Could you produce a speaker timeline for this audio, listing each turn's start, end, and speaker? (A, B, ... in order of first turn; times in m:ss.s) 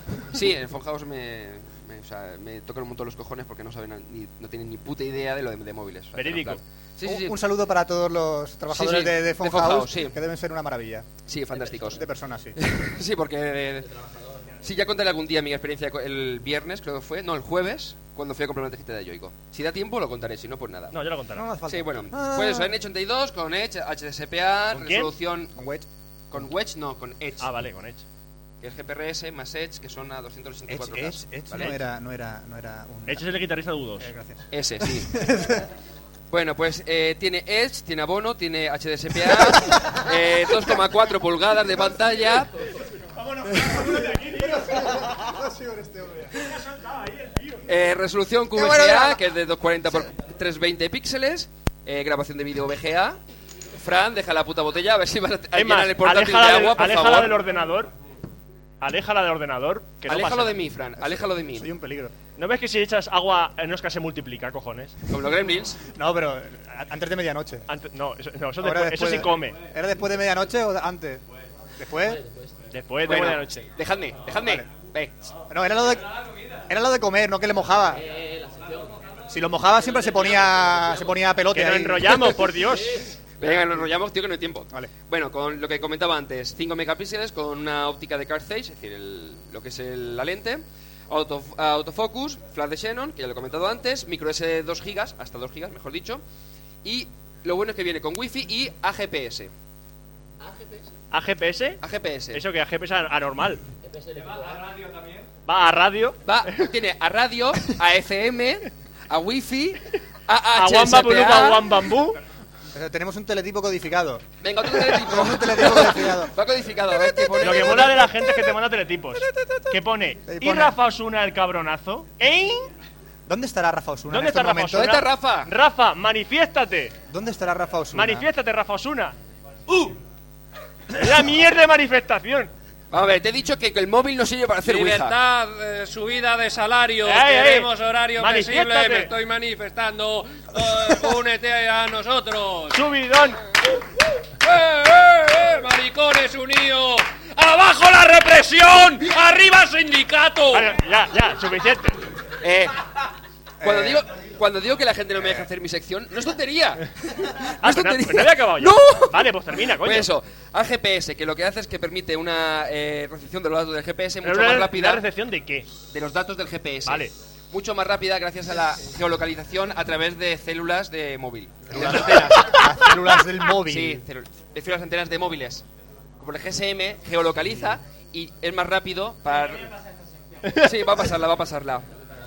0:00.3-0:07.4 A
0:06.2-0:06.6 B
0:07.0-0:11.1 C
0:08.7-0:10.2 A
0:11.3-0:12.0 A
0:11.8-0:12.6 C
0:12.6-0:13.9 A
0:14.0-0:14.6 D
0:14.6-0:20.9 A
0:20.9-0:21.4 B
0:21.4-0:22.7 C
0:21.7-0:25.5 A
0:24.7-0:25.1 B
0:25.5-0:25.9 C
0:26.3-0:27.5 A
0:27.4-0:28.0 B
0:28.6-0:31.8 A
0:30.7-0:33.3 C
0:33.1-0:34.1 B
0:34.0-0:35.7 C
0:34.5-0:35.1 A
0:36.3-0:42.5 A
0:39.3-0:39.8 C
0:43.2-0:44.7 B
0:43.5-0:46.3 C
0:46.4-0:47.6 B
0:47.7-0:53.2 A
0:48.6-0:49.2 C
0:53.8-0:57.4 A
0:55.5-0:57.9 B
0:58.8-1:00.6 B
1:00.1-1:01.7 A
1:01.0-1:02.1 C
1:02.4-1:05.0 B
1:05.1-1:05.8 A
1:05.9-1:07.7 C
1:07.7-1:09.6 B
1:08.6-1:11.2 C
1:11.8-1:12.2 C
1:12.7-1:13.7 B
1:13.1-1:15.3 A
1:14.4-1:14.7 C
1:15.5-1:16.1 C
1:16.7-1:18.0 C
1:18.2-1:18.9 D
1:19.3-1:22.3 C
1:21.5-1:23.0 B
1:23.4-1:36.2 A
1:36.8-1:39.5 A
1:40.5-1:40.8 D
1:41.1-1:41.8 B
1:41.8-1:42.4 A
1:42.3-1:43.6 B
1:43.9-1:44.6 D
1:44.8-1:45.2 E
1:45.5-1:46.6 B
1:46.2-1:51.7 A
1:50.6-1:52.2 B
1:52.7-1:56.3 C
1:54.4-1:58.1 A
1:57.4-2:02.7 B
1:59.2-1:59.8 C
2:00.3-2:00.8 C
2:03.3-2:05.0 C
2:04.1-2:07.0 B
2:04.7-2:05.5 A
2:07.1-2:08.3 C
2:07.9-2:09.2 B
2:10.9-2:12.5 B
2:12.9-2:15.2 A
2:14.6-2:22.8 E
2:17.0-2:19.1 B
2:22.7-2:23.4 B
2:24.4-2:30.7 E
2:30.5-2:32.0 B
2:32.4-2:32.8 A
2:33.6-2:34.0 C
2:33.6-2:45.0 A
2:35.2-2:35.5 C
2:37.6-2:40.1 B
2:44.2-2:45.7 B
2:45.9-2:52.6 A
2:46.9-2:47.1 B
2:51.7-2:54.0 C
2:53.6-2:55.6 A
2:56.2-2:59.7 A
3:00.6-3:01.9 A